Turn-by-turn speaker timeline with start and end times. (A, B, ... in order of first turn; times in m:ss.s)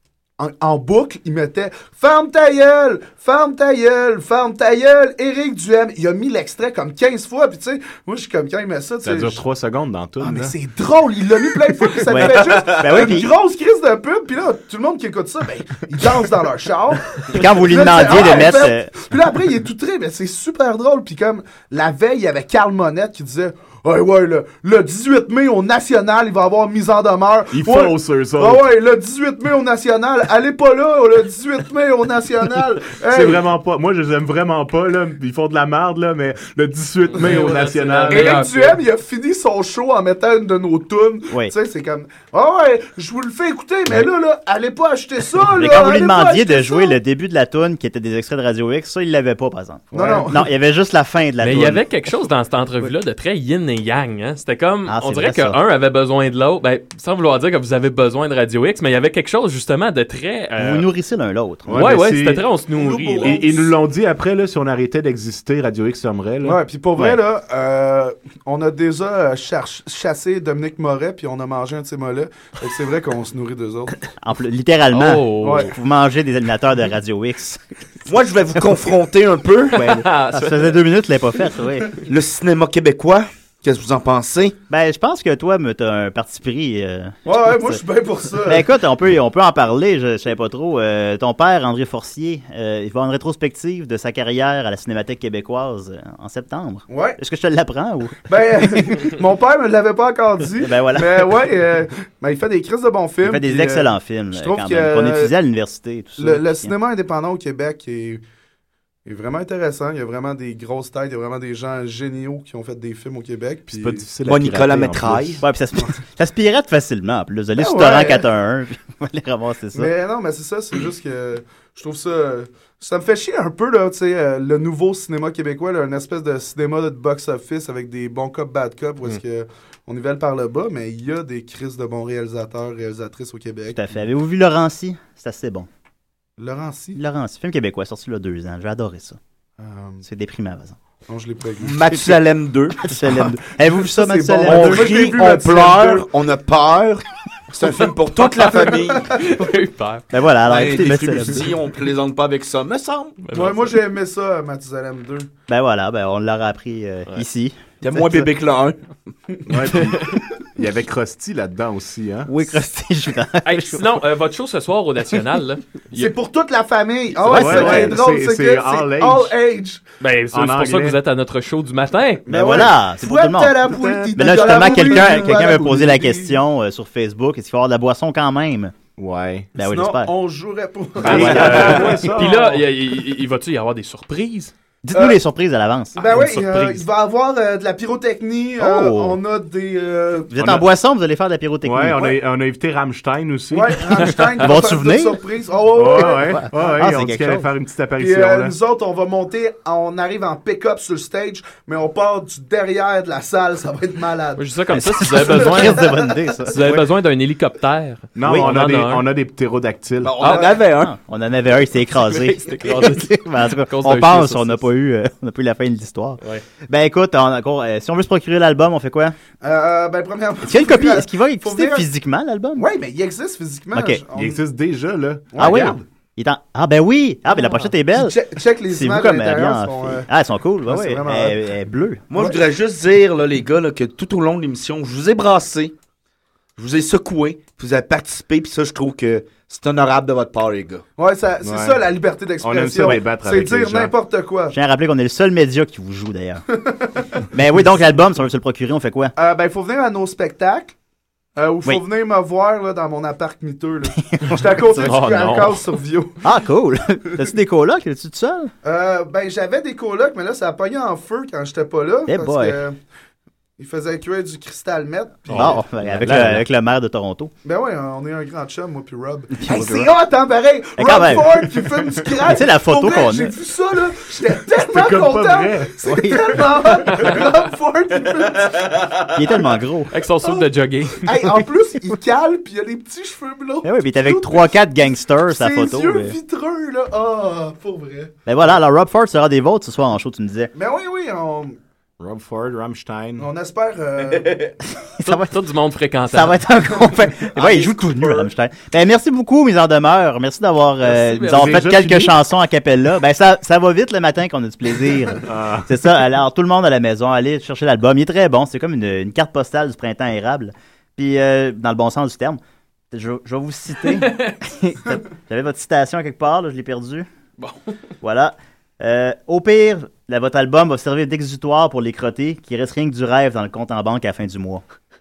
0:00.4-0:09.4 A
0:09.0-0:10.6 B
0:10.2-0:33.4 A
0:12.0-0:13.3 C
0:17.3-0:18.9 C
0:27.5-0:28.7 B
0:33.0-0:38.4 B
0:37.1-0:38.8 D
0:38.1-0:47.0 A
0:41.3-0:41.6 C
0:45.4-0:51.9 C
0:49.9-0:50.5 A
0:51.4-1:00.9 D
0:54.9-0:55.6 C
1:00.6-1:02.0 C
1:01.6-1:02.5 B
1:01.7-1:03.5 D
1:02.7-1:03.7 A
1:03.2-1:06.6 B
1:06.4-1:13.9 A
1:14.2-1:17.6 C
1:14.9-1:15.7 D
1:15.4-1:15.7 A
1:18.1-1:19.9 E
1:19.7-1:20.8 D
1:20.3-1:21.9 C
1:22.1-1:24.6 E
1:24.7-1:27.8 C
1:27.3-1:28.7 A
1:28.4-1:39.0 C
1:36.9-1:37.2 A
1:38.3-1:45.3 A
1:40.6-1:41.3 C
1:43.2-1:46.7 C
1:46.2-1:48.2 A
1:49.1-1:54.1 A
1:53.7-1:55.4 B
1:54.2-1:55.4 E
1:55.4-1:59.9 C
1:57.6-1:58.2 A
1:59.7-2:13.8 A
2:13.7-2:15.7 C
2:16.4-2:17.0 A
2:17.0-2:19.2 C
2:19.6-2:20.0 A
2:20.0-2:20.8 C
2:21.1-2:21.8 A
2:21.6-2:22.8 E
2:21.9-2:22.2 C
2:22.8-2:25.2 C
2:23.8-2:26.1 A
2:24.4-2:29.1 E
2:28.2-2:30.0 D
2:30.1-2:31.5 C
2:30.4-2:33.2 E
2:33.2-2:33.8 D
2:33.3-2:35.3 A
2:35.5-2:38.3 C
2:37.8-2:38.8 E
2:39.5-2:42.3 B
2:42.3-2:43.8 C
2:43.4-2:46.1 D
2:46.0-2:49.8 A
2:47.2-2:47.9 D
2:47.2-2:49.3 B
2:50.0-2:52.2 D
2:50.3-2:51.0 B
2:52.3-2:56.4 A
2:52.3-2:58.8 C
2:53.7-2:55.2 B
2:59.0-2:59.5 B
2:59.6-3:00.1 C
2:59.6-3:01.8 A
3:01.0-3:02.7 B
3:01.0-3:04.5 D
3:04.9-3:06.6 C
3:04.9-3:05.2 A
3:06.0-3:10.4 A
3:06.1-3:06.8 D
3:08.6-3:09.2 C
3:10.3-3:12.1 C
3:10.4-3:10.7 B
3:11.6-3:14.0 B
3:13.5-3:16.4 A
3:14.3-3:15.2 C
3:15.8-3:18.6 B
3:16.1-3:17.5 C
3:18.0-3:24.4 A
3:24.4-3:29.1 D
3:24.7-3:26.8 C
3:25.3-3:26.3 A
3:28.2-3:30.2 B
3:30.0-3:30.9 E
3:30.2-3:39.2 C
3:32.0-3:34.6 D
3:39.4-3:41.9 A
3:40.4-3:42.7 C
3:42.6-3:44.4 A
3:43.7-3:44.0 C
3:44.1-3:45.8 B
3:45.3-3:45.8 A
3:45.4-3:52.3 C
3:47.3-3:50.1 A
3:50.6-3:51.4 A
3:52.1-3:55.8 E
3:56.6-4:00.8 E
4:01.0-4:04.6 A
4:01.4-4:01.9 B
4:02.4-4:03.9 B
4:04.5-4:06.4 C
4:06.8-4:07.1 A
4:07.3-4:09.1 C
4:09.2-4:10.8 A
4:11.4-4:16.2 A
4:14.0-4:15.0 C
4:14.8-4:15.6 D
4:16.2-4:18.5 C
4:18.6-4:22.8 A
4:22.1-4:22.6 C
4:23.6-4:25.6 A
4:25.3-4:27.3 C
4:25.3-4:26.4 D
4:26.0-4:26.4 B
4:27.4-4:38.8 A
4:29.3-4:29.9 C
4:30.8-4:31.6 C
4:32.2-4:33.4 C
4:34.6-4:35.7 B
4:35.8-4:36.8 C
4:36.9-4:37.2 D
4:39.1-4:39.9 C
4:39.9-4:41.2 D
4:41.0-4:44.5 A
4:43.6-4:46.2 C
4:45.3-4:48.2 A
4:48.3-4:50.5 C
4:50.6-4:51.6 A
4:52.0-4:53.3 B
4:53.2-4:54.5 A
4:54.8-4:55.4 C
4:55.0-4:56.4 D
4:56.1-5:12.4 C
4:57.5-4:58.2 E
5:00.9-5:01.6 D
5:01.3-5:02.2 B
5:05.3-5:05.7 B
5:12.9-5:17.1 C
5:13.9-5:14.4 D
5:17.4-5:17.7 D
5:18.0-5:24.6 C